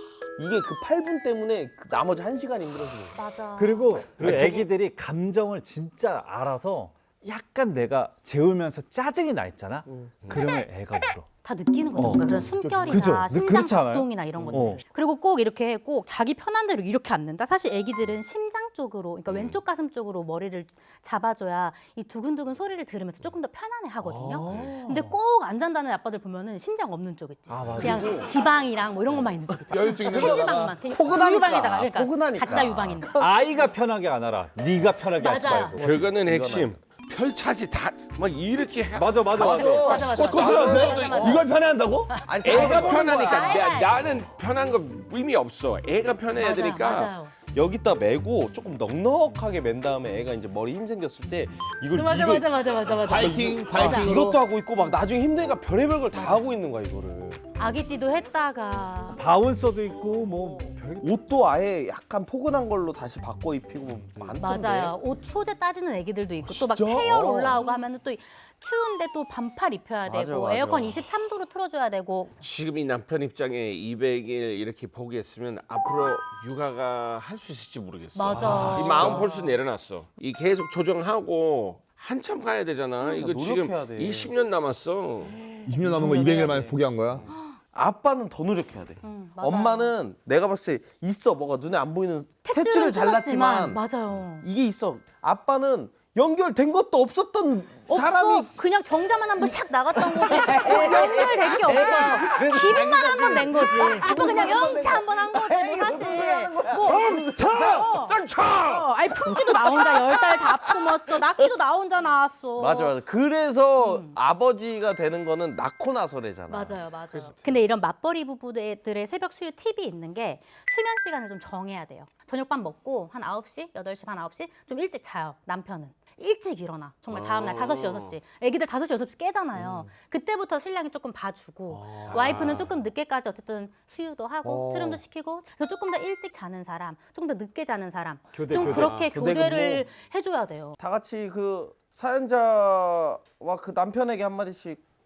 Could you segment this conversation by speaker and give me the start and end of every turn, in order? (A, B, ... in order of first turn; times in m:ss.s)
0:00.4-0:03.2 A
0:03.1-0:04.1 B
0:03.6-0:11.3 C
0:04.2-0:04.6 A
0:09.9-0:10.1 A
0:11.4-0:33.1 B
0:11.9-0:14.8 C
0:12.6-0:13.1 D
0:19.3-0:19.6 E
0:24.0-0:25.1 C
0:27.5-0:28.4 C
0:27.7-0:28.3 A
0:29.7-0:30.8 D
0:30.1-0:33.3 A
0:33.2-0:36.0 C
0:35.2-0:35.8 B
0:35.8-0:41.4 E
0:35.8-0:36.8 A
0:38.9-0:40.2 C
0:39.3-0:40.8 A
0:39.4-0:41.6 B
0:40.2-0:42.2 D
0:42.1-0:44.0 B
0:42.2-0:43.7 A
0:42.4-0:47.1 E
0:46.4-0:47.3 B
0:47.5-0:52.4 A
0:51.9-0:54.2 B
0:52.0-0:52.4 C
0:53.0-0:54.4 D
0:53.2-0:57.4 A
0:57.6-0:59.2 B
0:59.1-1:01.2 C
1:01.0-1:04.9 A
1:04.4-1:12.4 B
1:06.4-1:07.6 A
1:10.0-1:11.0 A
1:12.4-1:25.3 E
1:18.1-1:19.5 B
1:18.6-1:19.2 A
1:18.7-1:19.2 D
1:23.0-1:24.3 A
1:25.6-1:27.2 D
1:25.8-1:26.8 A
1:27.7-1:33.8 A
1:29.0-1:29.9 B
1:32.4-1:34.5 B
1:34.4-1:38.5 A
1:37.9-1:53.0 B
1:39.9-1:48.8 A
1:40.5-1:45.8 C
1:46.8-1:48.0 C
1:52.6-1:56.8 A
1:53.8-1:54.1 B
1:56.5-2:20.8 B
2:07.1-2:08.2 E
2:12.1-2:12.7 E
2:14.4-2:15.0 D
2:18.3-2:19.2 C
2:18.5-2:19.1 E
2:19.1-2:19.9 A
2:20.8-2:24.8 A